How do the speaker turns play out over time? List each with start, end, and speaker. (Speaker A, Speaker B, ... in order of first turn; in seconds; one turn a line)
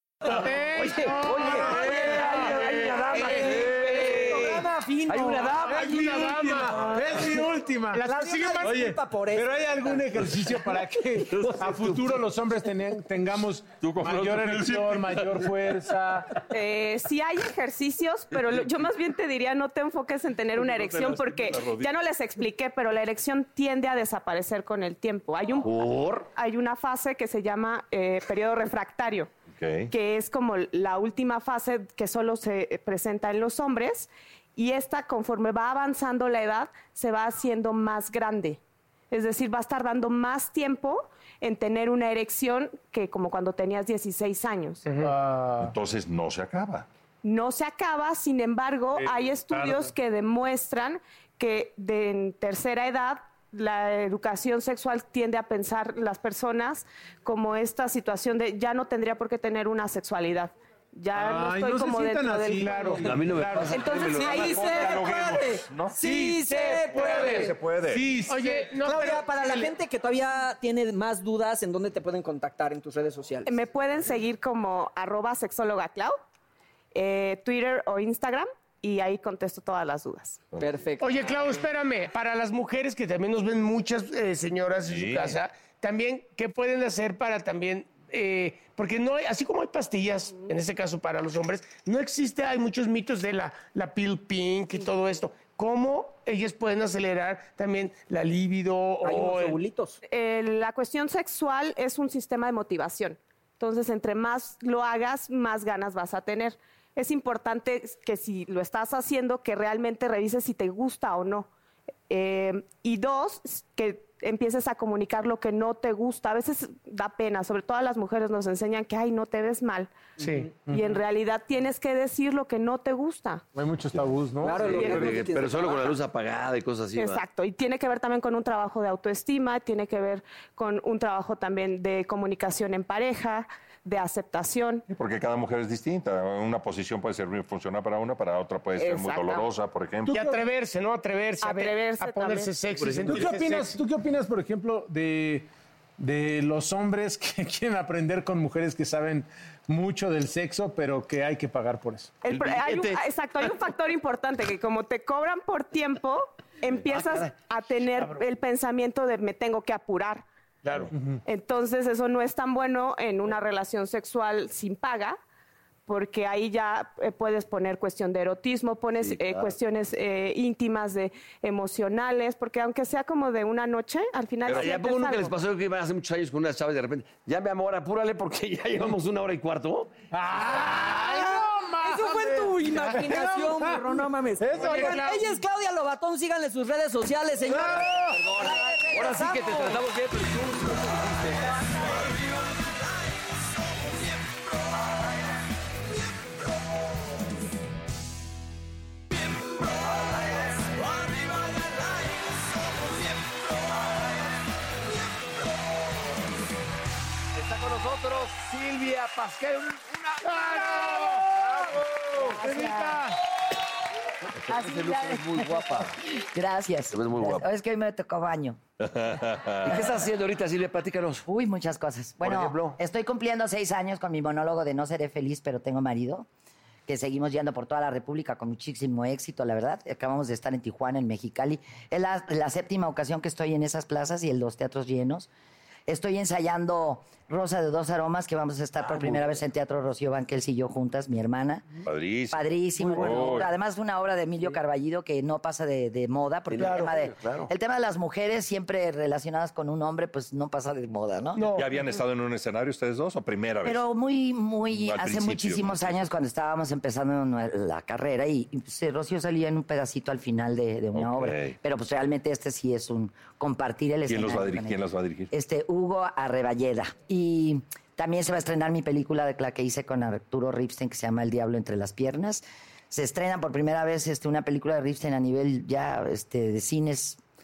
Speaker A: 0.3-2.5
Speaker B: 0.3-5.6
Speaker C: 1.1-5.9
Speaker D: 1.4-4.4
Speaker D: 5.5-8.0
Speaker A: 5.6-8.8
Speaker B: 8.0-10.0
Speaker D: 8.6-16.3
Speaker C: 11.4-11.9
Speaker E: 13.8-15.5
Speaker F: 16.5-25.7
Speaker E: 20.6-21.9
Speaker C: 25.6-26.3
Speaker F: 26.3-29.3
Speaker E: 29.5-29.9
Speaker F: 29.9-38.6
Speaker F: 39.1-44.9
Speaker A: 44.9-45.1
Speaker D: 45.0-45.7
Speaker E: 45.6-46.9
Speaker F: 47.2-63.0
Speaker D: 49.0-49.9
Speaker D: 61.1-64.2
Speaker A: 62.6-63.1
Speaker C: 63.0-64.7
Speaker F: 63.6-65.1
Speaker B: 64.1-67.5
Speaker E: 64.4-66.0
Speaker D: 66.0-69.1
Speaker A: 66.5-67.5
Speaker E: 66.9-68.2
Speaker A: 68.3-69.7
Speaker B: 68.8-73.6
Speaker F: 73.5-76.2
Speaker F: 76.9-80.4
Speaker B: 80.6-81.3
Speaker A: 81.0-99.6
Speaker E: 84.8-85.4
Speaker B: 99.0-100.0
Speaker F: 100.1-111.5
Speaker F: 112.1-120.0
Speaker A: 120.2-120.5
Speaker F: 120.6-123.4
Speaker D: 120.7-121.0
Speaker D: 123.5-125.2
Speaker B: 124.4-125.9
Speaker C: 124.6-127.2
Speaker F: 124.7-125.0
Speaker F: 127.0-134.8
Speaker E: 134.9-140.2
Speaker F: 138.8-139.5
Speaker D: 140.1-140.4
Speaker A: 140.1-143.7
Speaker F: 141.4-142.5
Speaker C: 142.7-143.3
Speaker D: 143.1-145.5
Speaker D: 146.0-152.2
Speaker F: 152.2-160.2
Speaker C: 152.3-153.0
Speaker C: 156.8-157.3
Speaker A: 160.6-160.9
Speaker D: 160.9-161.2
Speaker F: 161.2-165.2
Speaker F: 165.9-175.3
Speaker C: 169.0-169.5
Speaker C: 174.5-179.9
Speaker D: 180.1-185.2
Speaker B: 180.9-189.8
Speaker A: 184.6-185.4
Speaker D: 187.4-188.1
Speaker C: 187.7-194.9
Speaker C: 199.3-205.9
Speaker C: 207.3-212.4
Speaker A: 210.3-211.3
Speaker A: 212.4-213.1
Speaker C: 214.4-215.9
Speaker G: 214.5-218.6
Speaker C: 216.9-217.4
Speaker E: 218.8-219.8
Speaker C: 219.6-221.3
Speaker G: 221.3-226.3
Speaker C: 222.2-222.8
Speaker G: 226.9-235.3
Speaker G: 235.9-241.7
Speaker C: 238.8-239.4
Speaker E: 241.8-243.5
Speaker G: 242.3-251.6
Speaker C: 246.5-247.5
Speaker A: 246.6-246.9
Speaker A: 251.3-251.8
Speaker E: 251.5-253.8
Speaker G: 253.6-277.2
Speaker E: 254.7-256.0
Speaker E: 260.9-261.6
Speaker E: 264.1-265.3